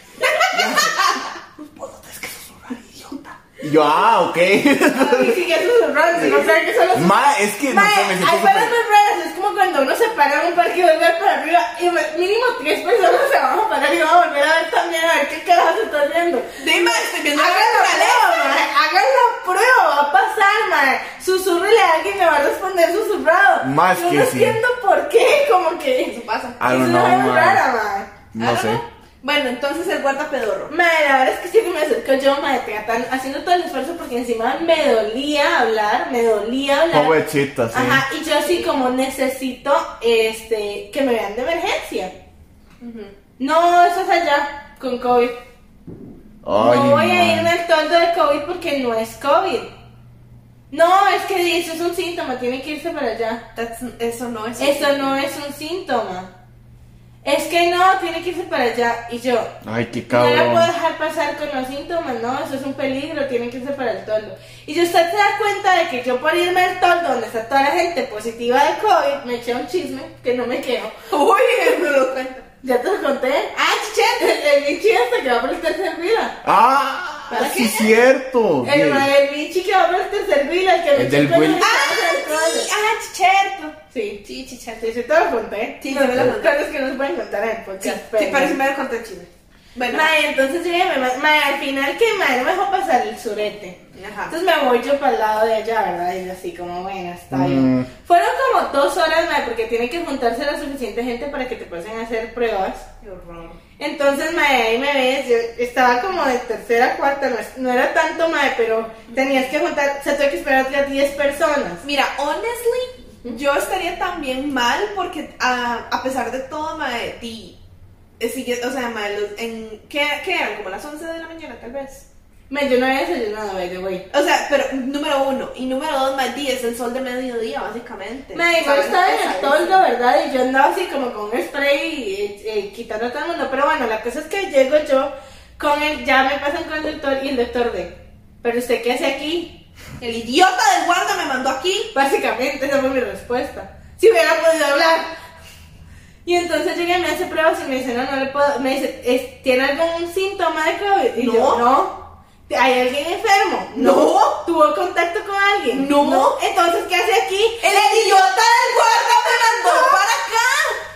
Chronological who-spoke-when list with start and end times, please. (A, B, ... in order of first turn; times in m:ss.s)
0:00.2-0:01.2 A
0:00.5-0:05.4 B
0:04.9-0:28.1 C
0:06.2-0:08.7 B
0:16.6-0:18.6 A
0:23.6-0:24.6 B
0:26.1-0:26.6 A
0:26.6-0:27.6 B
0:28.3-0:28.8 B
0:28.4-0:30.7 A
0:30.7-0:37.2 C
0:36.9-0:38.0 B
0:37.7-0:42.1 C
0:38.3-0:38.7 A
0:42.8-0:43.1 A
0:43.4-0:45.4 C
0:46.4-0:47.5 B
0:46.6-0:49.7 C
0:50.7-0:53.4 C
0:53.5-0:55.1 A
0:54.6-0:56.3 C
0:57.2-0:59.5 C
0:59.6-1:00.7 B
1:00.1-1:10.9 C
1:11.1-1:12.4 A
1:12.6-1:13.5 C
1:13.5-1:14.4 A
1:14.2-1:16.4 C
1:16.4-1:19.1 B
1:17.3-1:17.9 A
1:17.3-1:17.9 C
1:18.6-1:22.7 C
1:20.9-1:21.6 B
1:21.6-1:23.8 A
1:23.9-1:28.6 C
1:25.8-1:26.5 A
1:27.8-1:30.1 A
1:29.9-1:33.8 C
1:34.0-1:34.3 A
1:34.3-1:42.8 C
1:37.3-1:37.9 B
1:43.0-1:43.6 A
1:43.8-1:51.8 C
1:49.2-1:49.4 A
1:51.8-1:57.6 A
1:58.2-2:02.0 A
2:02.5-2:04.0 C
2:04.1-2:09.8 A
2:08.3-2:19.6 C
2:20.0-2:21.9 A
2:21.9-2:25.1 C
2:26.2-2:38.3 C
2:31.2-2:31.6 A
2:33.7-2:34.4 A
2:35.7-2:36.4 A
2:37.6-2:40.8 A
2:39.6-2:40.0 C